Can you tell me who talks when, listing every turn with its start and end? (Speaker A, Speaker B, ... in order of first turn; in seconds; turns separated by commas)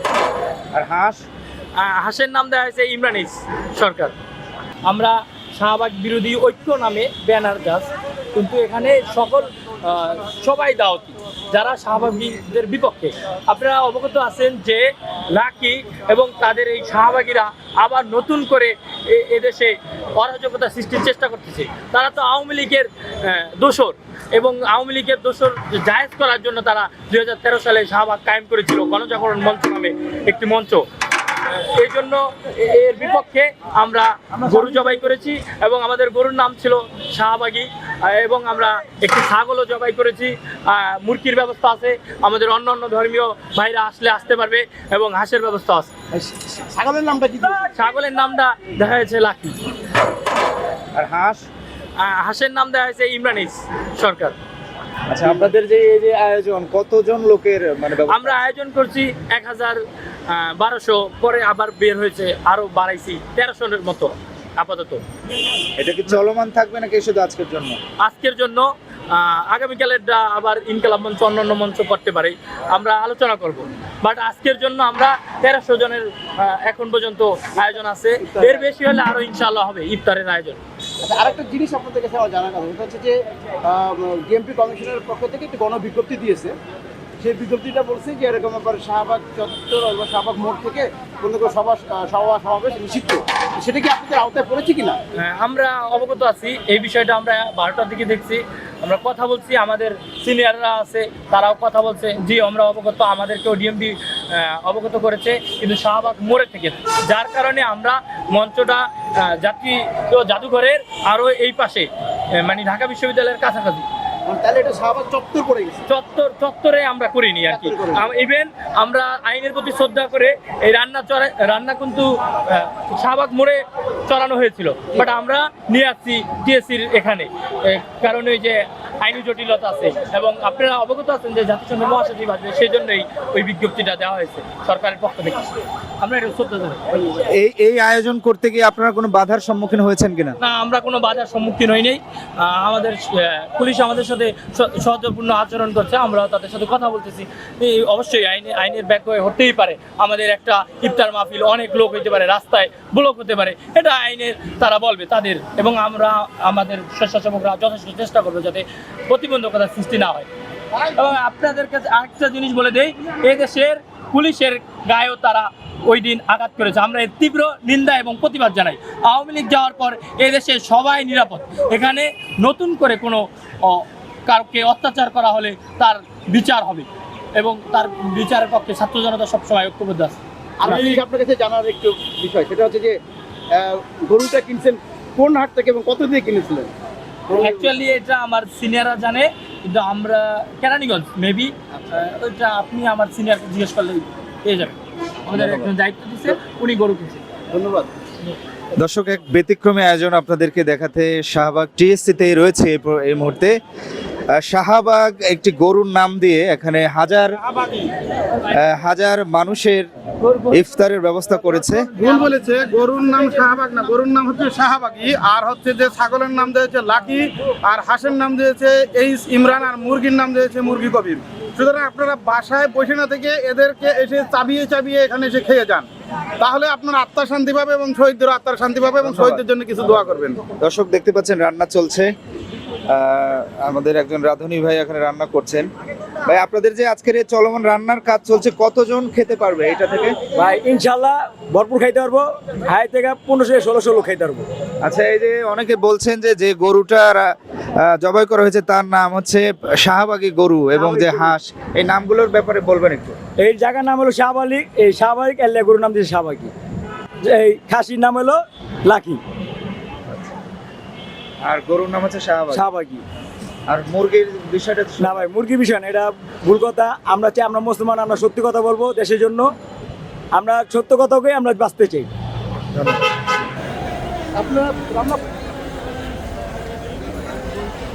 Speaker A: 0.7-1.2, Speaker B: 1.8-4.1, Speaker B: 4.8-30.9, Speaker B: 31.4-45.9, Speaker C: 46.1-47.7, Speaker B: 47.8-49.6, Speaker A: 51.0-51.5, Speaker B: 52.0-54.4, Speaker A: 55.1-58.4, Speaker B: 58.1-65.0, Speaker A: 65.8-67.8, Speaker B: 68.0-80.6, Speaker C: 78.2-78.7, Speaker C: 81.0-86.6, Speaker C: 87.2-95.0, Speaker B: 95.2-113.9, Speaker C: 114.3-115.8, Speaker B: 115.9-136.8, Speaker C: 117.5-118.1, Speaker A: 137.2-140.4, Speaker B: 140.4-181.0, Speaker C: 180.6-183.0, Speaker C: 183.5-186.7, Speaker C: 187.3-187.7, Speaker B: 187.4-197.2, Speaker A: 195.4-195.7, Speaker C: 197.5-197.9, Speaker A: 198.8-203.6, Speaker A: 204.3-207.4, Speaker A: 208.5-209.9, Speaker B: 210.2-210.6, Speaker A: 210.5-211.9, Speaker D: 212.0-225.9, Speaker D: 226.4-230.4, Speaker A: 229.0-229.4, Speaker A: 230.6-232.1, Speaker A: 232.9-235.7, Speaker A: 236.2-240.2, Speaker E: 240.4-244.5, Speaker A: 244.8-253.2, Speaker E: 250.8-251.3, Speaker E: 253.4-256.5, Speaker E: 257.2-259.2, Speaker A: 261.4-262.6, Speaker E: 262.5-263.0, Speaker A: 263.7-265.3, Speaker E: 265.0-269.5, Speaker E: 270.3-272.1, Speaker C: 274.4-275.2